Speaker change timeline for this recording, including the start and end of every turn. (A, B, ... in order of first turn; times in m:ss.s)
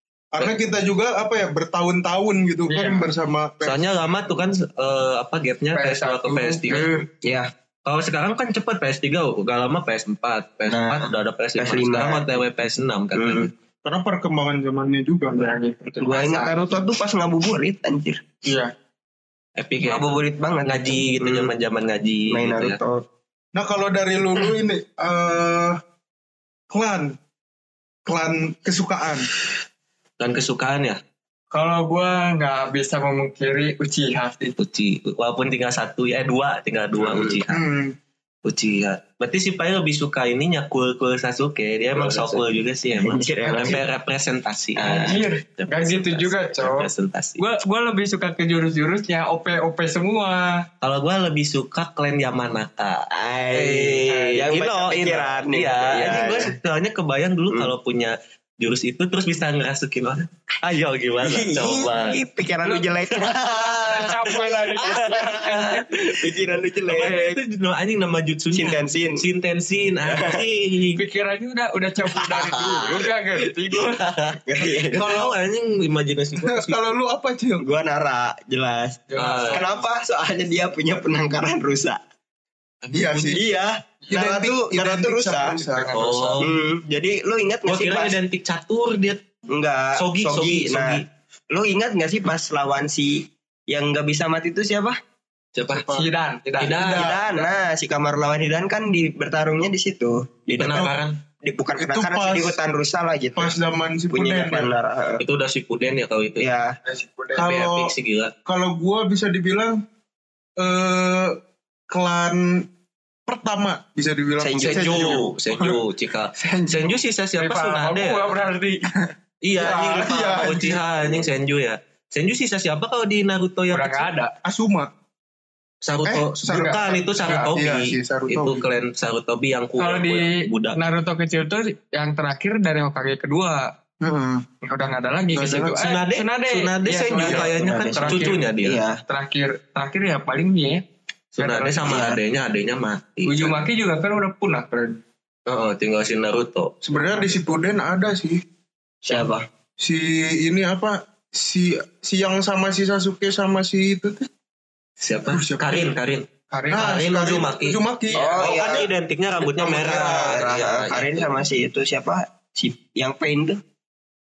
0:00.3-0:03.9 A
0:02.7-0:03.0 B
0:03.6-0:06.9 C
0:05.7-0:06.8 B
0:06.7-0:07.5 D
0:07.8-0:13.5 C
0:10.7-0:12.4 D
0:13.1-0:13.5 D
0:13.8-0:15.5 A
0:15.3-0:16.5 B
0:16.0-0:18.2 D
0:18.4-0:18.7 B
0:19.6-0:22.8 C
0:19.8-0:21.5 D
0:22.3-0:23.0 D
0:23.5-0:25.8 A
0:26.7-0:27.2 A
0:28.0-0:29.3 A
0:30.2-0:31.0 C
0:31.5-0:34.5 B
0:34.6-0:37.6 C
0:37.0-0:37.4 D
0:37.5-0:37.9 A
0:38.4-0:47.4 C
0:41.9-0:42.4 D
0:43.0-0:43.8 D
0:44.8-0:45.2 D
0:44.8-0:50.7 B
0:50.8-1:02.2 C
0:53.1-0:56.5 D
1:01.2-1:07.4 D
1:03.1-1:04.0 C
1:03.8-1:05.7 B
1:04.8-1:06.3 C
1:06.9-1:11.0 C
1:08.5-1:09.2 D
1:10.0-1:10.4 D
1:11.0-1:14.0 B
1:12.1-1:13.1 D
1:13.7-1:16.8 C
1:14.4-1:15.3 D
1:16.4-1:17.6 A
1:17.6-1:22.0 D
1:19.1-1:19.7 B
1:19.2-1:19.7 C
1:22.8-1:23.3 C
1:22.9-1:23.4 A
1:23.2-1:25.6 D
1:24.1-1:25.9 A
1:25.6-1:26.4 B
1:25.9-1:26.5 C
1:26.4-1:28.2 D
1:27.6-1:29.2 C
1:29.5-1:35.0 D
1:30.0-1:31.0 C
1:35.5-1:35.9 C
1:35.7-1:36.1 A
1:35.9-1:36.9 B
1:36.6-1:37.2 C
1:36.7-1:37.5 A
1:36.9-1:40.9 D
1:40.6-1:41.2 C
1:41.4-1:43.5 D
1:41.8-1:42.6 A
1:43.4-1:44.7 A
1:44.1-1:45.2 D
1:45.2-1:46.5 C
1:46.4-1:46.8 D
1:46.8-1:47.5 B
1:47.4-1:47.9 A
1:47.4-1:48.3 C
1:48.4-1:49.8 A
1:50.6-1:51.4 A
1:51.9-1:52.6 A
1:53.3-1:55.8 A
1:54.4-1:55.2 D
1:54.6-1:58.3 C
1:56.4-1:57.0 A
1:57.4-1:58.9 B
1:59.0-2:01.2 A
1:59.4-2:04.1 C
2:03.7-2:04.3 B
2:04.4-2:04.9 A
2:05.8-2:10.8 C
2:06.0-2:08.6 A
2:06.5-2:07.5 B
2:09.8-2:13.7 B
2:14.0-2:14.4 A
2:14.6-2:18.4 B
2:15.3-2:15.8 A
2:15.8-2:18.8 C
2:17.2-2:19.0 D
2:19.1-2:20.8 B
2:21.4-2:22.0 B
2:21.4-2:23.6 C
2:21.8-2:22.2 D
2:23.2-2:25.0 B
2:25.4-2:26.8 C
2:26.8-2:28.4 A
2:29.0-2:29.4 D
2:29.8-2:34.3 A
2:35.0-2:37.8 C
2:35.3-2:36.0 A
2:36.5-2:37.1 B
2:36.7-2:38.9 A
2:38.1-2:38.9 D
2:38.2-2:38.5 B
2:38.4-2:41.4 C
2:39.6-2:40.5 A
2:40.0-2:43.6 D